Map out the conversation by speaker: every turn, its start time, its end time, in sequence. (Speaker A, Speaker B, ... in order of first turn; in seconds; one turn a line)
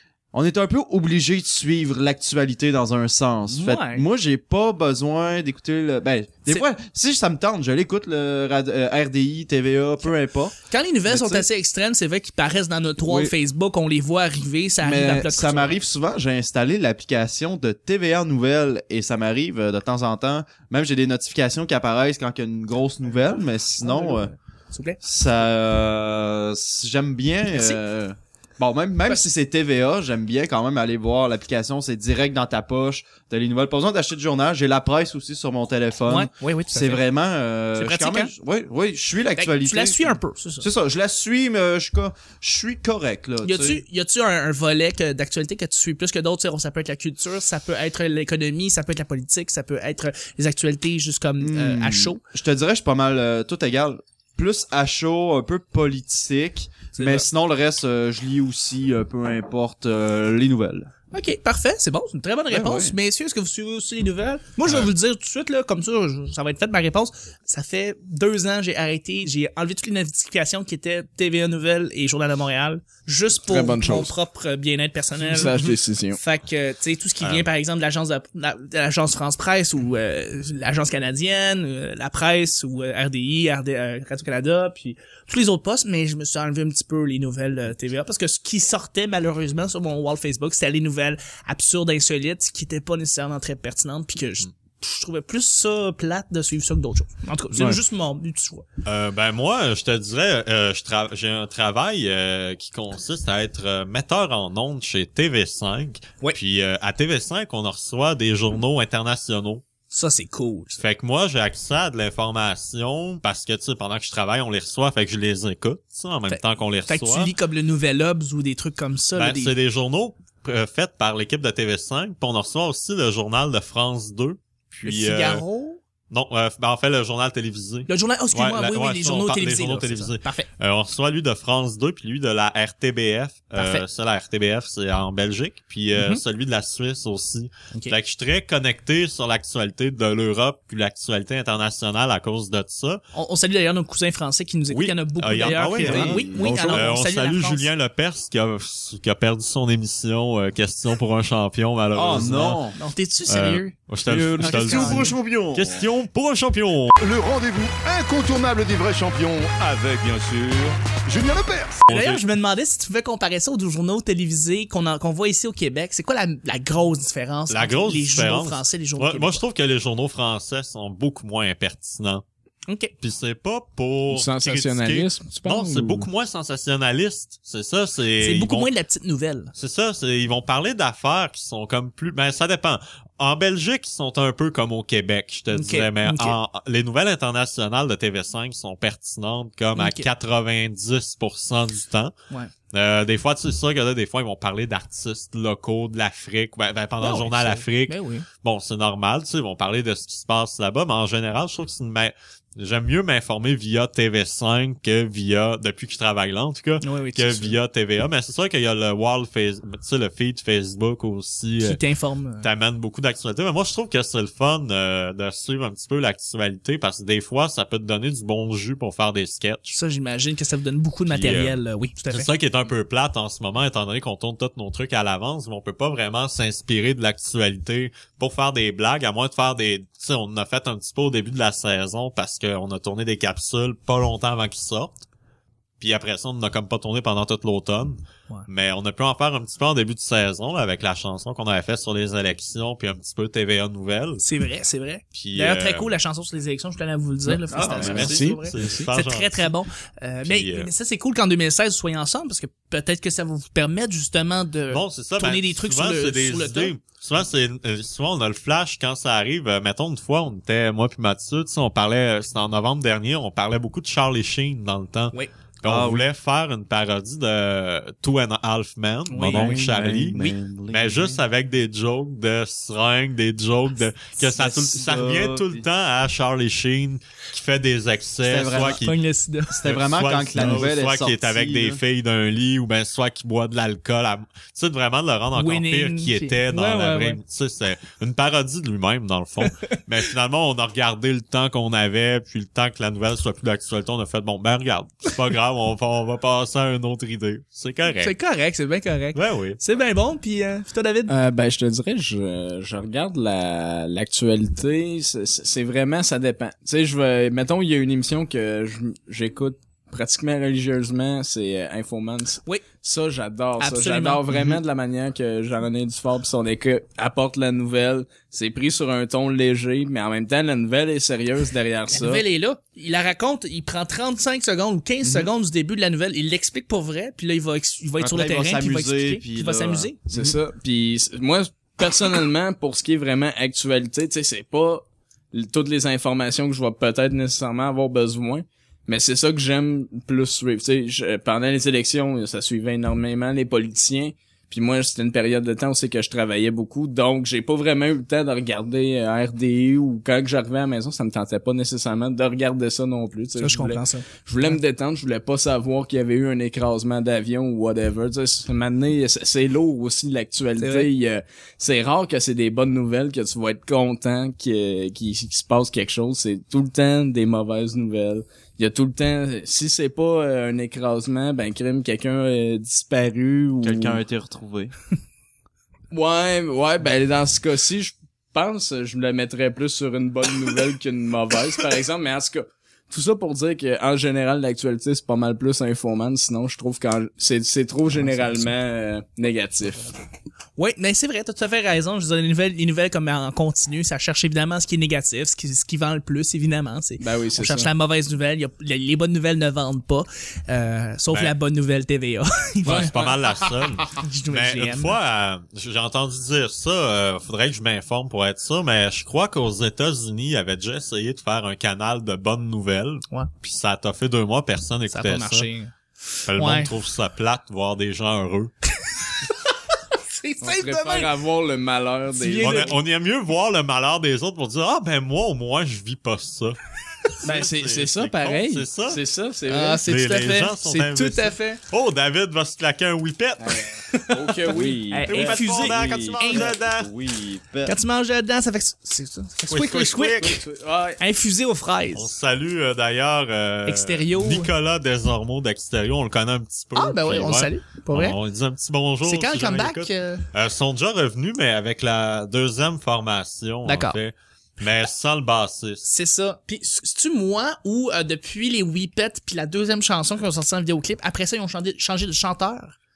Speaker A: 0.3-10.6
Speaker B: 3.5-4.0
Speaker B: 10.7-15.8
Speaker A: 11.1-11.5
Speaker A: 13.0-13.3
Speaker A: 14.8-24.3
Speaker B: 23.8-25.0
Speaker A: 25.0-43.8
Speaker B: 27.5-27.8
Speaker B: 36.1-37.0
Speaker B: 37.8-38.3
Speaker B: 39.4-40.7
Speaker B: 43.4-52.2
Speaker A: 51.4-60.9
Speaker B: 56.9-57.3
Speaker B: 61.1-75.6
Speaker A: 62.5-63.0
Speaker C: 73.5-74.1
Speaker C: 75.2-76.2
Speaker B: 76.2-98.7
Speaker D: 77.2-77.5
Speaker A: 97.5-97.8
Speaker D: 98.8-109.6
Speaker B: 109.9-110.8
Speaker D: 110.8-117.3
Speaker B: 116.3-119.5
Speaker D: 119.2-125.4
Speaker B: 124.8-125.8
Speaker D: 126.1-143.0
Speaker B: 127.9-130.5
Speaker B: 133.5-133.8
Speaker B: 136.0-136.2
Speaker B: 143.1-147.7
Speaker D: 144.7-152.6
Speaker A: 145.5-146.9
Speaker A: 151.9-152.8
Speaker B: 152.8-153.7
Speaker D: 153.3-157.0
Speaker A: 154.1-155.8
Speaker B: 154.4-155.2
Speaker E: 157.0-161.8
Speaker D: 161.9-162.2
Speaker B: 161.9-169.4
Speaker D: 167.5-172.2
Speaker B: 172.7-172.9
Speaker D: 173.0-178.7
Speaker C: 174.1-176.1
Speaker B: 178.2-179.5
Speaker D: 179.5-192.1
Speaker B: 185.5-186.4
Speaker B: 189.8-190.1
Speaker D: 192.7-211.8
Speaker B: 197.0-198.3
Speaker B: 206.8-207.6
Speaker B: 211.6-212.5
Speaker D: 212.4-219.8
Speaker B: 219.7-222.3
Speaker D: 221.1-221.6
Speaker D: 222.1-235.1
Speaker D: 235.8-244.2
Speaker B: 244.2-256.7
Speaker D: 245.1-245.9
Speaker C: 247.3-248.8
Speaker A: 247.5-248.2
Speaker D: 247.5-249.5
Speaker D: 250.2-250.7
Speaker D: 254.7-270.2
Speaker A: 265.6-266.1
Speaker B: 269.1-269.6
Speaker A: 269.3-271.2
Speaker D: 270.7-279.0
Speaker A: 274.2-275.6
Speaker A: 278.2-278.8
Speaker B: 278.7-279.6
Speaker A: 279.5-281.8
Speaker D: 279.6-298.1
Speaker B: 285.4-287.2
Speaker B: 289.4-289.8
Speaker B: 298.0-301.1
Speaker D: 299.1-299.6
Speaker C: 301.1-322.2
Speaker B: 313.6-314.2
Speaker A: 314.3-314.6
Speaker B: 321.9-330.0
Speaker A: 325.0-325.3
Speaker A: 328.0-330.4
Speaker C: 330.1-374.0
Speaker B: 353.4-354.6
Speaker B: 360.6-360.9
Speaker A: 373.6-374.7
Speaker C: 375.9-390.0
Speaker B: 388.0-388.5
Speaker B: 390.6-402.9
Speaker C: 397.0-397.7
Speaker D: 402.6-415.5
Speaker C: 402.6-403.1
Speaker B: 403.9-405.0
Speaker B: 414.9-415.8
Speaker D: 416.3-418.5
Speaker B: 416.3-416.7
Speaker B: 420.1-421.1
Speaker C: 420.4-422.8
Speaker B: 422.1-422.8
Speaker D: 422.4-426.6
Speaker D: 427.1-429.0
Speaker C: 427.2-429.8
Speaker B: 429.5-431.6
Speaker D: 429.8-433.7
Speaker C: 433.4-436.6
Speaker B: 433.9-436.5
Speaker D: 435.1-436.9
Speaker A: 436.8-437.7
Speaker B: 437.6-440.4
Speaker D: 439.5-440.4
Speaker C: 440.2-441.0
Speaker B: 441.0-442.1
Speaker D: 441.9-455.8
Speaker B: 443.7-444.5
Speaker B: 446.8-448.2
Speaker B: 449.0-450.3
Speaker B: 453.7-454.0
Speaker B: 455.8-462.8